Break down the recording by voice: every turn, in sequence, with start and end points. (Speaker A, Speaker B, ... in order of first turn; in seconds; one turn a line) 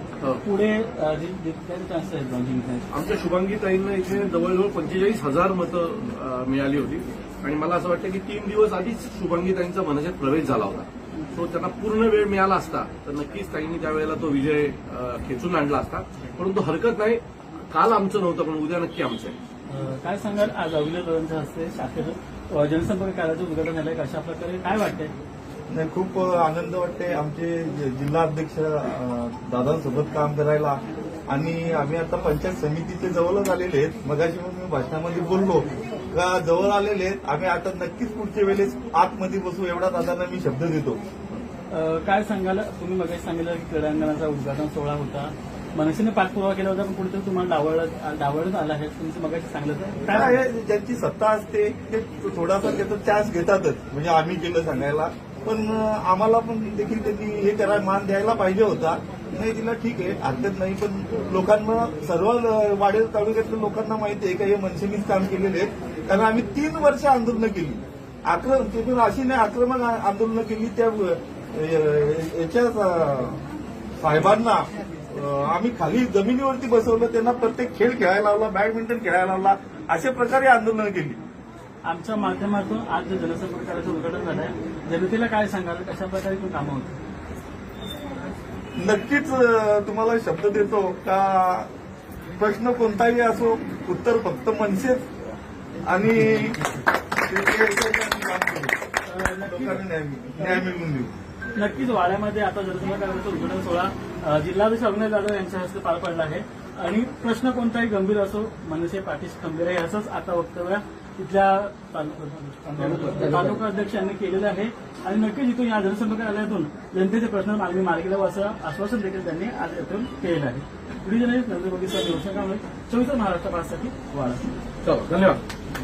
Speaker A: 0.4-2.9
Speaker B: 2.9-17.2
Speaker B: 17.7-19.4
Speaker A: 19.7-25.1
Speaker C: 25.7-41.0
Speaker A: 41.7-50.4
Speaker C: 50.1-73.4
Speaker C: 74.0-81.2
Speaker A: 81.9-87.0
Speaker C: 88.8-91.7
Speaker C: 92.4-95.1
Speaker C: 95.8-96.6
Speaker A: 96.5-96.9
Speaker C: 97.2-98.8
Speaker A: 99.1-99.8
Speaker C: 99.4-101.1
Speaker A: 101.6-124.5
Speaker B: 112.8-113.6
Speaker B: 124.8-125.4